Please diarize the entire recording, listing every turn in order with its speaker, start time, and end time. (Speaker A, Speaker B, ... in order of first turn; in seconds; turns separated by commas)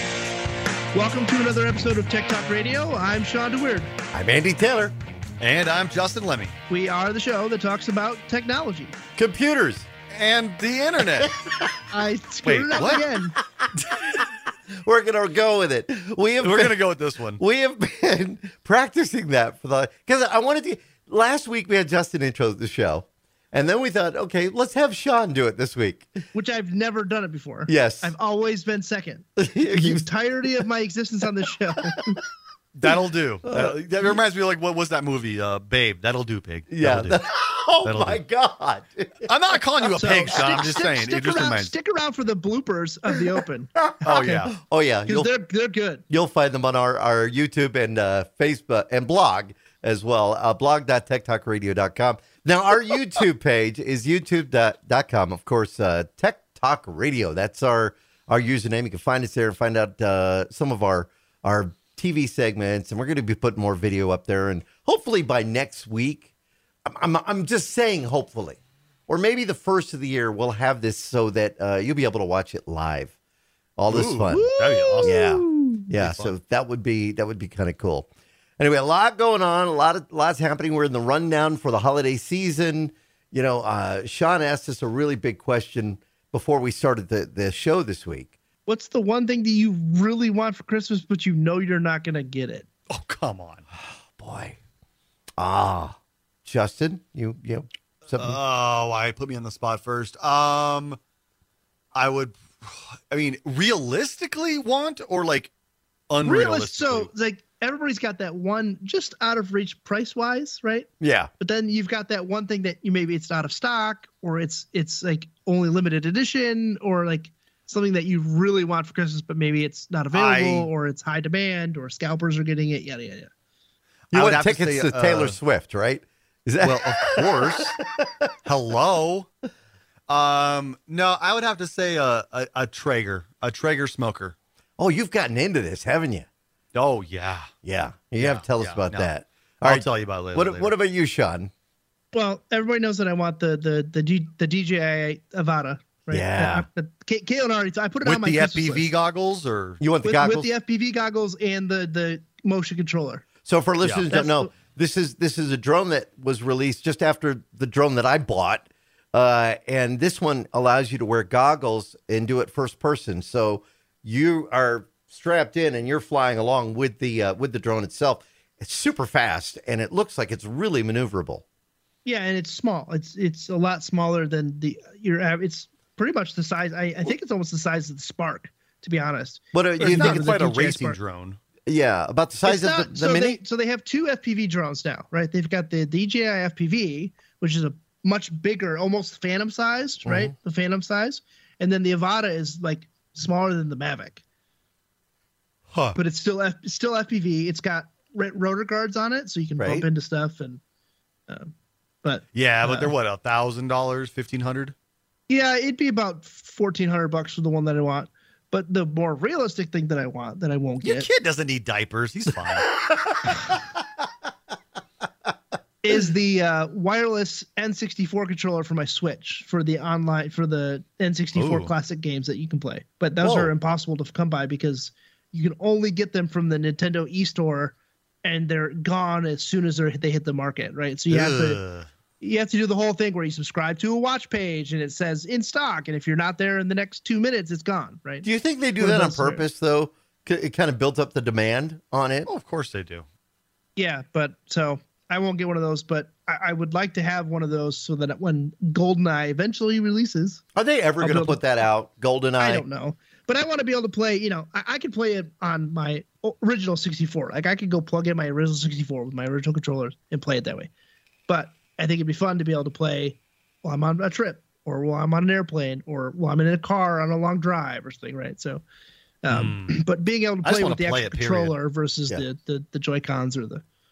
Speaker A: 0.9-3.9, Speaker B: 4.1-5.0, Speaker C: 5.4-6.5, Speaker A: 6.7-8.9, Speaker B: 9.2-9.9, Speaker C: 10.1-11.4, Speaker A: 11.9-13.4, Speaker C: 12.4-13.0, Speaker B: 13.6-16.8, Speaker C: 16.4-17.4, Speaker B: 17.4-26.2, Speaker A: 26.3-32.2, Speaker B: 27.7-28.1, Speaker B: 29.4-30.1, Speaker C: 32.8-37.2, Speaker B: 32.8-34.2, Speaker B: 36.7-39.3, Speaker C: 37.8-38.2, Speaker C: 39.3-41.7, Speaker A: 39.9-44.5, Speaker B: 43.4-45.3, Speaker C: 44.0-44.5, Speaker A: 45.1-46.0, Speaker B: 46.1-66.3, Speaker B: 66.8-73.2, Speaker B: 73.8-74.5, Speaker C: 73.9-75.2, Speaker A: 74.3-75.8, Speaker B: 75.0-88.3, Speaker C: 76.0-76.3, Speaker A: 88.7-92.7, Speaker C: 92.9-93.6, Speaker B: 93.8-94.6, Speaker B: 95.4-98.4, Speaker C: 98.2-101.0, Speaker C: 101.9-105.5, Speaker C: 106.1-107.1, Speaker A: 106.2-110.9, Speaker B: 111.0-111.3, Speaker A: 111.4-123.3, Speaker C: 120.1-120.7, Speaker B: 124.1-128.2, Speaker C: 124.1-125.4, Speaker C: 126.6-127.8, Speaker C: 128.4-129.3, Speaker C: 130.1-134.3, Speaker B: 134.8-136.3, Speaker C: 136.7-137.5, Speaker B: 137.6-141.5, Speaker C: 138.2-139.1, Speaker C: 139.6-140.7, Speaker A: 142.1-148.9, Speaker B: 146.1-146.7, Speaker C: 148.1-149.8, Speaker B: 149.8-150.5, Speaker A: 150.0-153.2, Speaker B: 153.4-171.4, Speaker A: 154.1-154.5, Speaker A: 172.1-181.0, Speaker B: 179.5-180.2, Speaker C: 179.8-181.4, Speaker B: 181.7-183.4, Speaker A: 182.4-194.2, Speaker B: 190.1-190.3, Speaker A: 195.9-200.6, Speaker B: 199.6-199.9, Speaker A: 202.0-202.9, Speaker C: 202.3-204.7, Speaker A: 205.3-211.1, Speaker C: 210.8-212.7, Speaker B: 212.9-213.2, Speaker A: 215.8-231.6, Speaker C: 221.3-221.7, Speaker B: 223.2-223.5, Speaker C: 231.1-231.9, Speaker A: 232.2-238.3, Speaker B: 238.2-242.3, Speaker A: 238.8-239.4, Speaker C: 242.3-243.1, Speaker A: 243.8-250.4, Speaker B: 250.6-252.7, Speaker A: 251.0-251.4, Speaker A: 252.4-260.7, Speaker A: 261.3-268.6, Speaker A: 269.2-273.6, Speaker C: 269.3-269.8, Speaker C: 270.4-271.5